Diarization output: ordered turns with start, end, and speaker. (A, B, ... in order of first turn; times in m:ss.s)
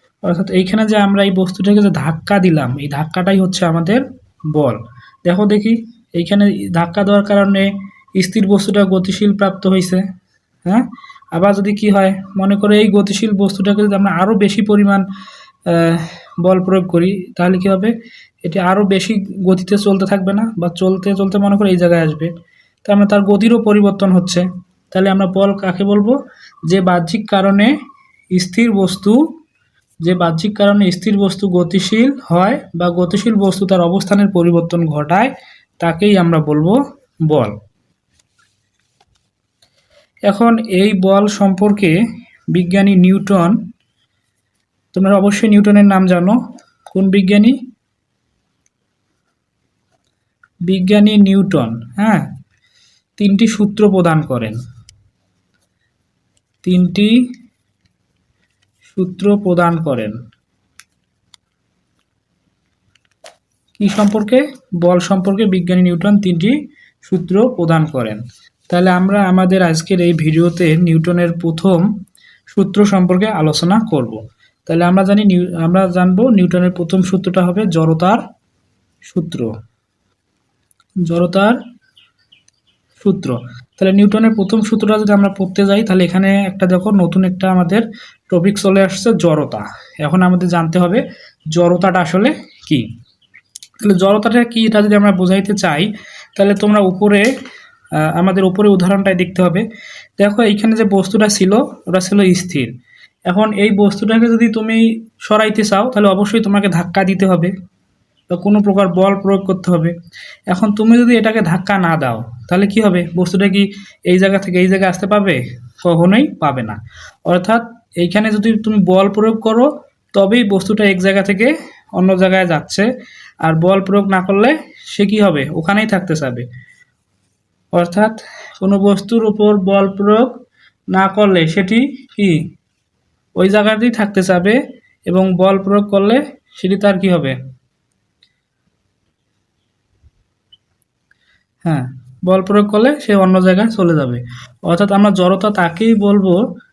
0:00.2-0:10.0 A
0:10.6-0:15.0 A
0:15.7-0:22.3 A
0:22.8-0:26.2 A
0:26.7-0:27.7 A
0:28.3-0:29.2 A
0:30.0-0:37.5 A
0:40.3-0:42.0 A
0:42.5-0:43.5 A
0:44.9-0:46.4 A
0:46.9-0:47.5 A
0:50.7-0:52.3 A
0:53.2-0:54.6 A
0:56.6-0:57.2 A
0:58.9-1:00.2 A
1:03.8-1:11.8 A
1:12.5-1:18.2 A
1:19.0-1:19.5 A
1:21.0-1:21.6 A
1:23.0-1:32.9 A
1:33.8-1:37.3 A
1:38.0-1:39.6 A
1:40.2-1:42.7 A
1:43.3-1:47.5 A
1:48.3-1:49.9 A
1:50.5-2:02.9 A
2:03.4-2:06.4 A
2:07.7-2:10.3 A
2:10.9-2:12.4 A
2:13.4-2:17.4 A
2:21.6-2:26.4 A